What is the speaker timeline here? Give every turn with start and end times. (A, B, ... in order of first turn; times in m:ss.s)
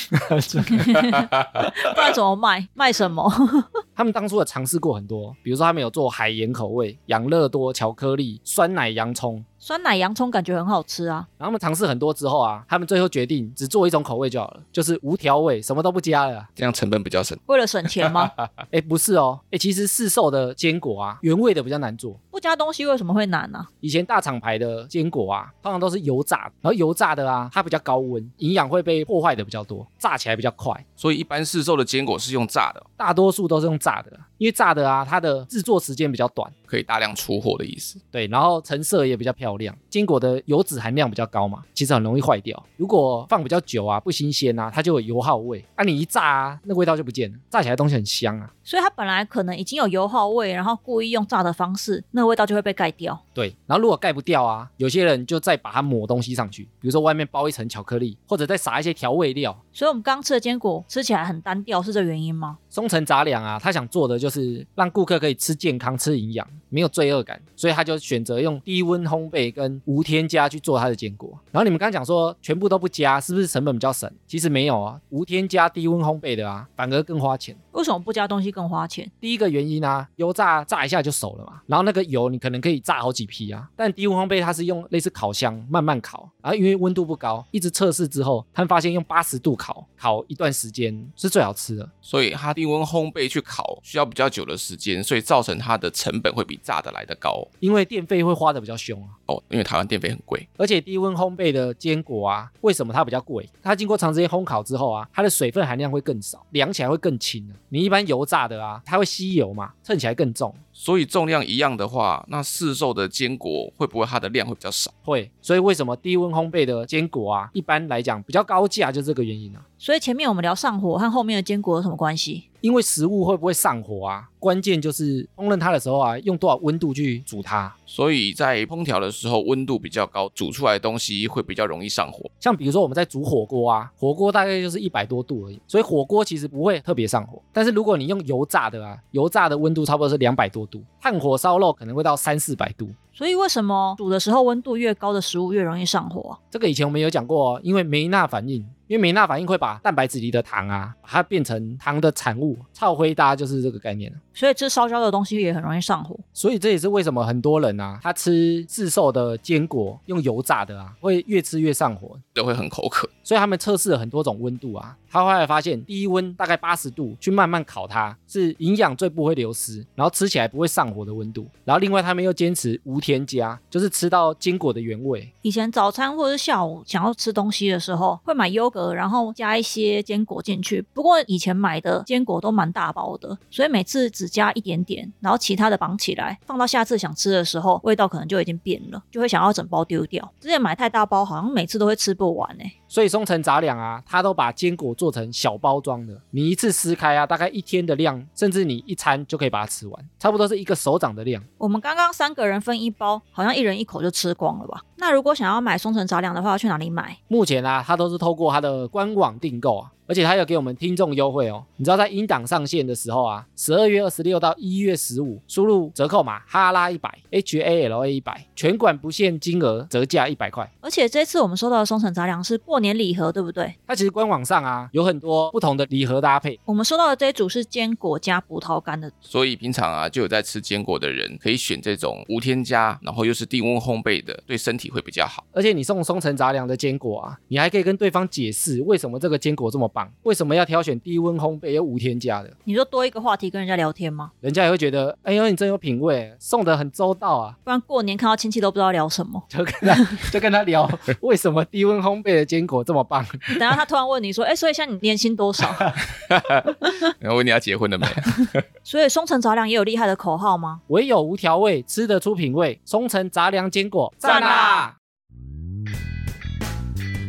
0:00.1-0:01.7 A
0:00.8-0:03.8 B
0:04.0-0:09.4 A
0:09.6-0:11.3 B
0:11.4-0:16.5 A
0:16.6-0:18.5 C
0:17.5-0:18.3 B
0:18.7-0:22.2 A
0:22.3-0:23.7 B
0:23.8-0:30.8 A
0:31.0-0:32.9 C
0:33.0-0:36.5 A
0:36.7-0:38.0 C
0:38.1-0:48.5 A
0:48.6-0:53.2 B
0:53.4-0:59.6 A
0:59.7-1:02.6 B
1:02.7-1:17.6 A
1:17.7-1:19.1 B
1:19.2-1:31.9 A
1:32.0-1:37.5 C
1:37.6-1:39.2 A
1:39.3-1:40.5 C
1:40.6-1:50.6 A
1:50.8-1:54.9 C
1:55.0-1:59.6 A
1:59.8-2:02.4 B
2:02.6-2:07.7 A
2:07.9-2:12.3 C
2:12.4-2:23.0 A
2:23.2-2:26.4 B
2:26.5-2:34.2 A
2:34.4-2:36.2 B
2:36.4-2:42.2 A
2:42.3-2:43.1 C
2:43.2-2:55.3 A
2:55.4-3:12.7 B
3:12.9-3:21.4 A
3:21.6-3:27.2 B
3:27.3-3:40.7 A
3:40.8-3:43.8 B
3:43.9-3:46.6 A
3:46.7-3:49.1 B
3:49.2-3:55.4 C
3:55.5-4:02.5 A
4:02.6-4:04.3 B
4:04.4-4:07.6 A
4:07.6-4:10.2 B
4:09.5-4:13.6 A
4:13.5-4:15.9 B
4:16.3-4:18.6 C
4:18.8-4:20.8 B
4:20.9-4:24.9 A
4:24.2-4:24.9 B